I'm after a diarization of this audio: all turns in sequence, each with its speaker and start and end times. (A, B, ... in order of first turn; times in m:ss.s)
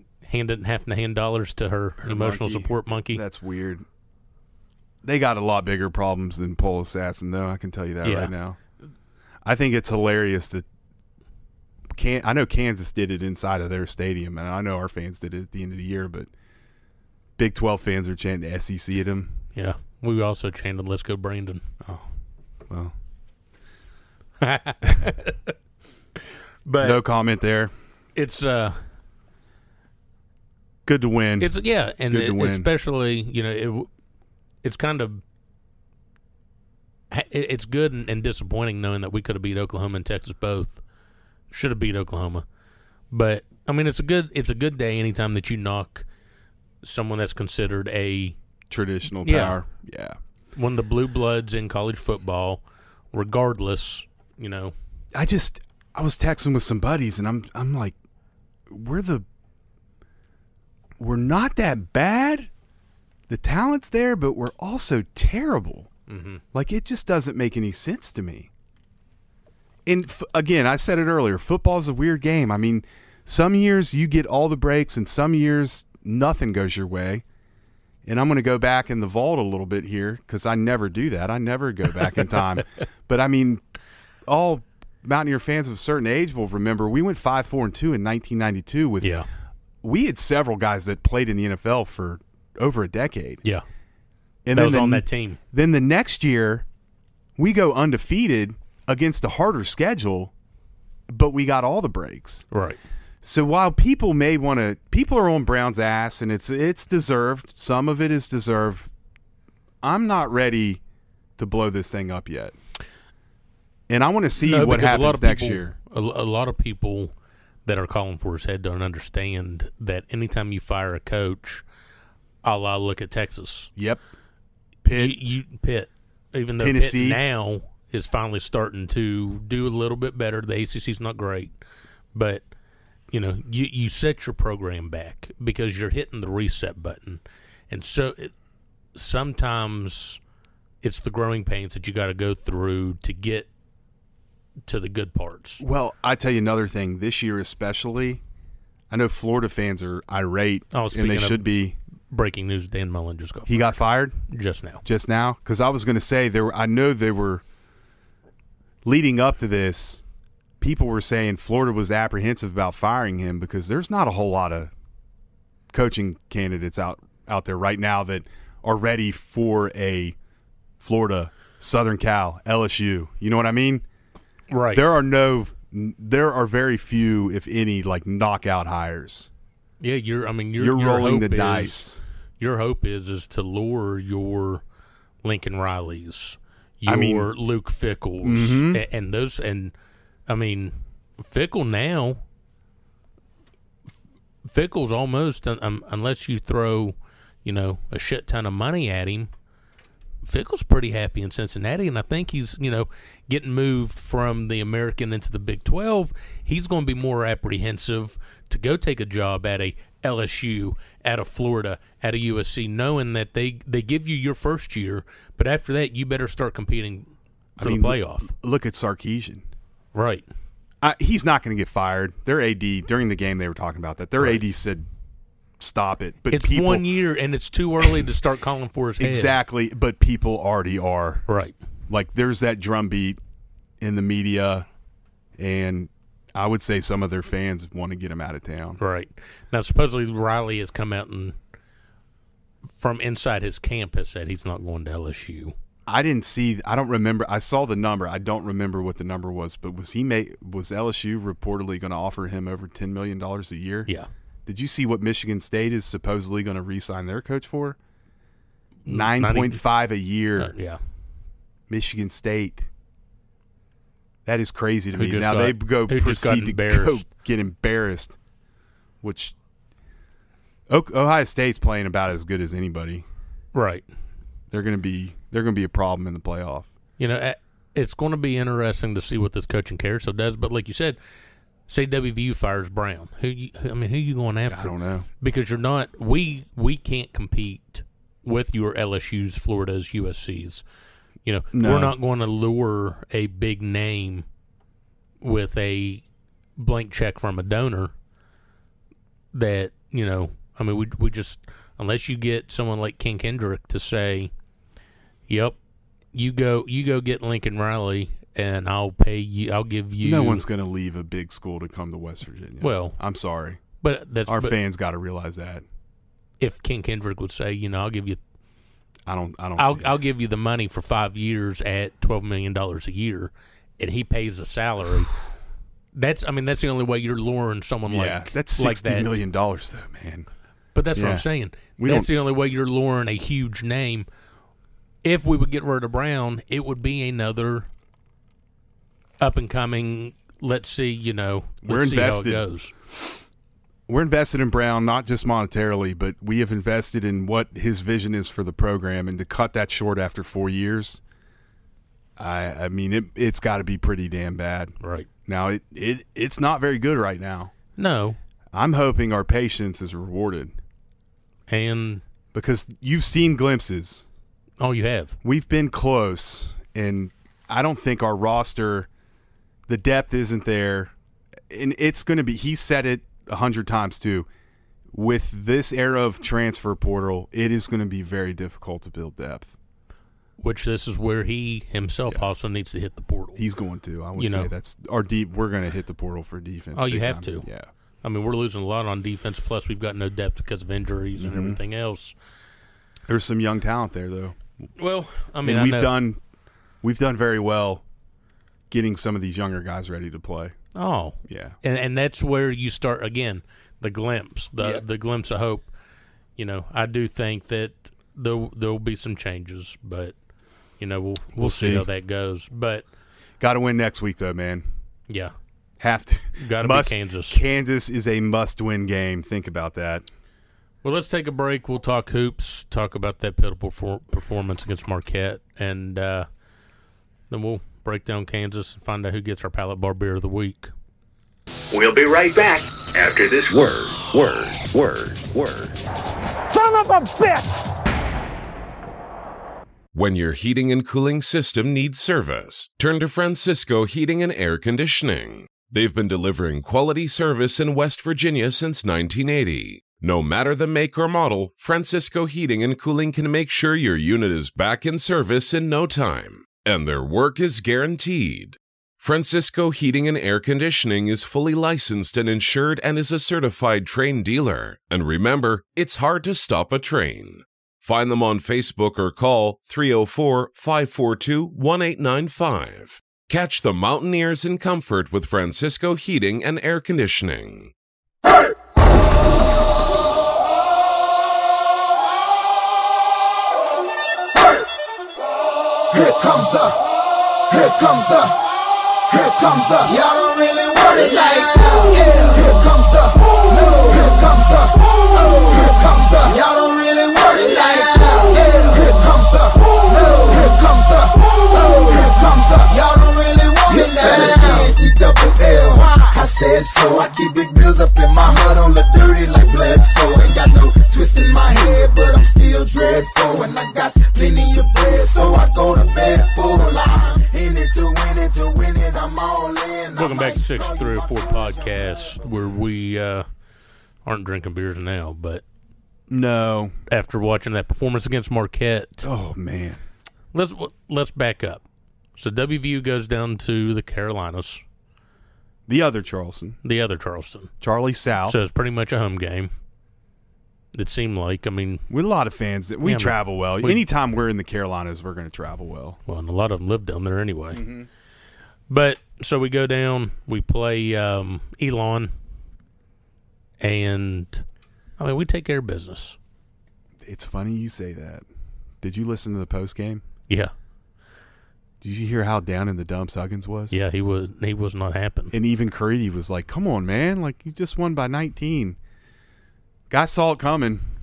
0:00.2-0:03.2 A
0:02.0-0:03.8 B
0:05.0-0:08.6 B
0:08.0-0:08.3 A
0:09.4-0:10.6 B
0:11.9-0:16.3 B
0:17.4-0:19.3 B
0:19.5-0:21.6 A
0:22.7-0:22.9 B
0:24.4-0:25.5 A
0:26.6-0:27.0 A
0:26.8-0:27.7 B
0:28.2-0:28.8 A
0:30.8-0:31.5 B
0:31.4-0:33.9 A
0:32.1-0:32.7 B
0:34.6-0:35.2 A
0:37.1-0:40.8 A
0:41.5-0:42.4 A
0:43.1-0:46.0 A
0:46.8-0:48.4 A
0:48.7-0:50.2 B
0:49.2-0:49.6 A
0:50.6-0:54.7 A
0:55.1-0:58.0 B
0:58.7-0:59.2 B
1:01.0-1:02.5 B
1:03.3-1:05.9 B
1:06.1-1:06.4 A
1:06.5-1:08.5 B
1:09.8-1:17.2 B
1:18.0-1:23.6 B
1:24.3-1:29.2 B
1:29.8-1:33.4 B
1:34.4-1:36.6 B
1:34.5-1:35.4 A
1:37.4-1:40.3 B
1:41.1-1:42.4 B
1:42.5-1:42.8 A
1:43.2-1:48.9 B
1:49.8-1:50.8 B
1:51.4-1:52.6 B
1:53.9-1:55.7 B
1:54.4-1:57.1 A
1:57.6-2:01.6 A
2:02.4-2:03.7 A
2:03.8-2:04.0 B
2:04.8-2:05.2 B
2:04.9-2:11.5 A
2:06.6-2:07.2 B
2:12.1-2:12.4 A
2:13.1-2:18.3 A
2:18.9-2:20.2 A
2:20.8-2:23.5 A
2:24.7-2:25.6 A
2:25.6-2:28.2 B
2:28.9-2:31.8 B
2:30.7-2:31.4 A
2:32.1-2:34.8 A
2:33.5-2:34.2 B
2:34.8-2:37.4 B
2:38.8-2:40.0 B
2:40.6-2:44.7 B
2:45.7-2:50.2 B
2:50.8-2:53.8 B
2:54.5-2:54.8 A
2:54.7-2:59.3 B
2:59.8-3:01.8 A
3:00.6-3:02.0 B
3:02.4-3:04.6 A
3:05.2-3:09.7 A
3:06.9-3:07.3 B
3:08.2-3:08.8 B
3:10.3-3:12.2 A
3:14.4-3:19.3 A
3:20.2-3:38.3 A
3:37.6-3:39.4 B
3:39.9-3:40.2 A
3:40.8-3:44.9 B
3:45.6-3:46.8 B
3:46.3-3:49.4 A
3:49.0-3:51.2 B
3:51.3-3:51.6 A
3:51.9-3:53.2 B
3:53.8-3:54.6 B
3:55.4-3:58.8 B
3:58.8-4:01.4 A
4:02.8-4:05.5 A
4:05.9-4:13.9 B
4:14.4-4:17.8 B
4:18.8-4:19.6 A
4:18.9-4:20.5 B
4:20.4-4:20.8 A
4:21.7-4:22.7 B
4:24.2-4:28.2 B
4:24.9-4:27.0 A
4:29.0-4:29.3 B
4:30.7-4:33.0 B
4:33.5-4:33.8 A
4:34.5-4:36.7 B
4:37.0-4:41.0 A
4:41.7-4:50.6 A
4:44.5-4:45.1 B
4:51.2-4:54.2 A
4:51.5-4:51.9 B
4:55.2-4:56.0 A
4:56.6-4:57.9 A
4:59.3-5:04.3 A
5:05.3-5:05.6 A
5:06.1-5:10.4 A
5:10.0-5:13.6 B
5:12.6-5:13.0 A
5:13.8-5:14.6 A
5:14.3-5:15.6 B
5:16.4-5:18.2 A
5:19.1-5:19.9 B
5:19.6-5:25.1 A
5:25.9-5:29.2 A
5:27.9-5:30.3 B
5:30.7-5:34.0 A
5:30.9-5:31.2 B
5:31.8-5:32.1 B
5:35.0-5:37.7 A
5:39.2-5:42.7 A
5:41.6-5:42.4 B
5:43.9-5:51.0 B
5:52.2-5:54.7 B
5:54.8-5:55.1 A
5:55.2-5:57.5 B
5:57.8-5:58.2 A
5:58.5-6:00.5 B
6:01.5-6:02.0 A
6:02.3-6:04.0 B
6:04.6-6:05.2 A
6:05.2-6:08.9 B
6:09.7-6:10.9 B
6:11.5-6:14.3 B
6:14.9-6:19.5 B
6:20.4-6:23.4 A
6:23.4-6:27.7 B
6:24.2-6:24.5 A
6:26.8-6:27.5 A
6:28.0-6:32.1 A
6:31.2-6:31.6 B
6:33.1-6:34.4 B
6:34.8-6:35.9 A
6:35.4-6:36.2 B
6:36.8-6:37.8 B
6:38.7-6:40.5 B
6:40.7-6:45.7 A
6:41.3-6:41.6 B
6:46.4-6:50.1 A
6:50.8-6:52.8 A
6:51.4-6:51.8 B
6:53.4-6:54.6 B
6:55.8-7:00.1 B
6:56.4-6:57.4 A
7:00.8-7:06.3 A
7:07.3-7:10.7 A
7:11.7-7:14.5 C
7:13.5-7:15.7 D
7:16.6-7:17.4 C
7:19.9-7:57.7 D
8:05.9-8:06.8 E
8:07.5-8:08.4 E
8:09.1-8:42.2 E
8:39.9-8:43.2 A
8:44.0-8:45.4 A
8:46.1-8:46.7 B
8:46.9-8:49.1 A
8:49.0-8:49.8 B
8:50.3-8:51.6 A
8:52.2-8:54.6 A
8:55.7-8:56.6 B
8:56.6-8:57.5 A
8:57.6-8:58.4 B
8:58.2-8:59.5 A
9:00.7-9:01.8 A
9:01.9-9:06.0 B
9:02.8-9:03.8 A
9:06.0-9:07.6 A
9:07.5-9:07.9 B
9:08.7-9:12.1 A
9:13.6-9:14.4 A
9:15.0-9:16.2 A
9:17.0-9:18.2 B
9:18.8-9:20.0 B
9:21.8-9:23.8 B
9:23.7-9:25.3 A
9:25.3-9:28.8 B
9:29.9-9:30.8 B